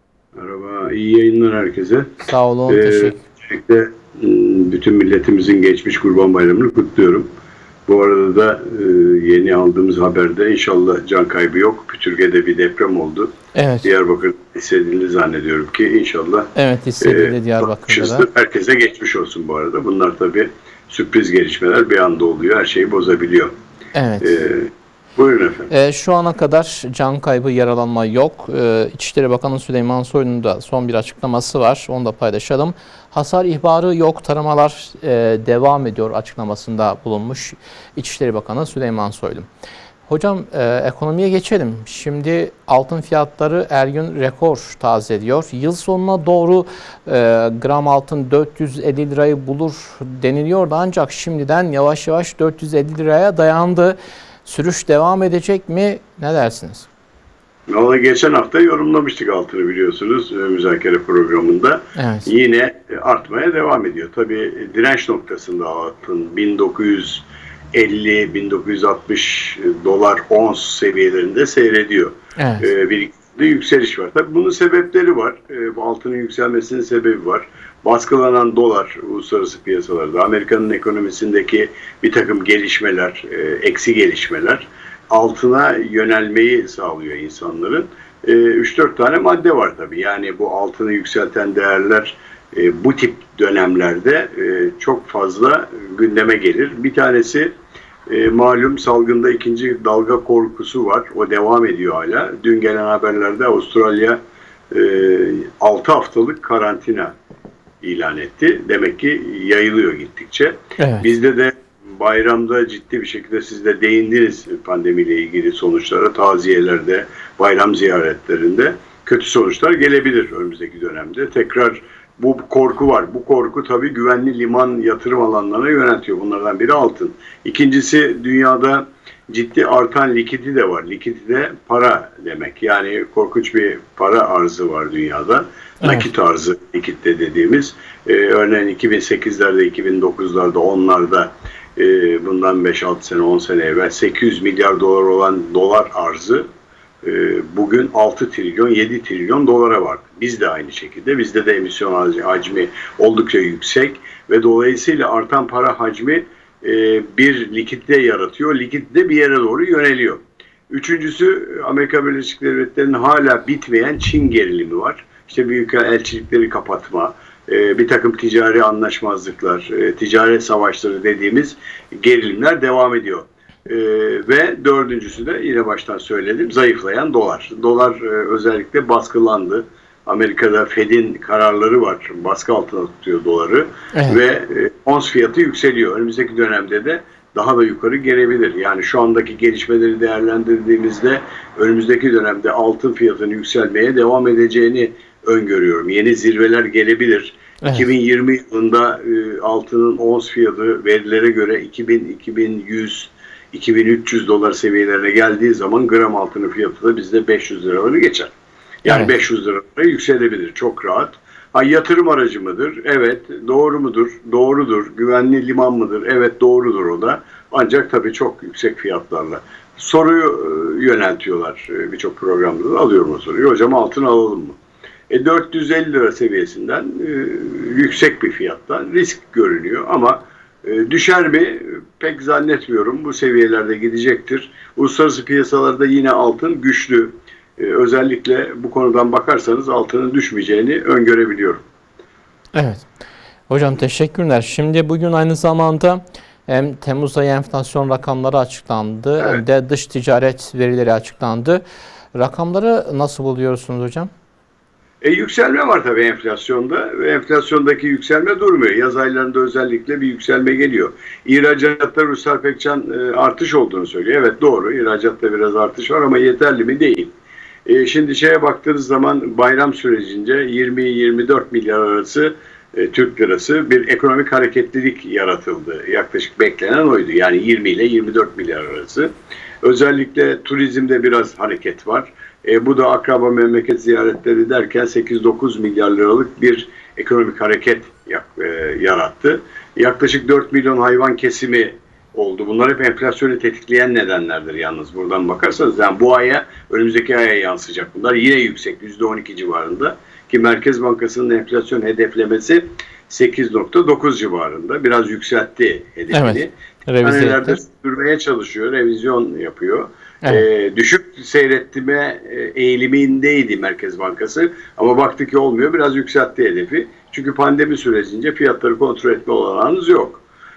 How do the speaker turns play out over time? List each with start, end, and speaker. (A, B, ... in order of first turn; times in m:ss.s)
0:00.4-0:07.3 A
0:02.3-0:03.2 B
0:07.9-0:13.3 A
0:13.5-0:13.9 B
0:13.8-0:16.5 A
0:16.6-0:18.3 B
0:17.0-0:23.5 A
0:24.0-0:24.4 B
0:24.2-0:25.7 A
0:25.7-0:39.4 B
0:40.1-0:56.9 B
0:57.7-1:37.5 A
1:02.0-1:02.3 B
1:12.4-1:12.7 B
1:38.1-1:44.2 A
1:44.7-1:47.1 A
1:47.8-2:26.4 A
1:50.8-1:51.1 B
2:15.8-2:16.1 B
2:27.0-3:28.3 A
3:03.9-3:04.2 B
3:17.6-3:17.9 B
3:28.8-3:44.6 A
3:28.9-3:29.1 B
3:45.1-4:01.6 A
4:02.5-4:02.9 B
4:03.5-4:11.6 B
4:12.1-4:14.1 B
4:15.0-4:27.1 A
4:27.6-4:39.1 A
4:39.6-5:20.2 A
5:06.1-5:07.6 B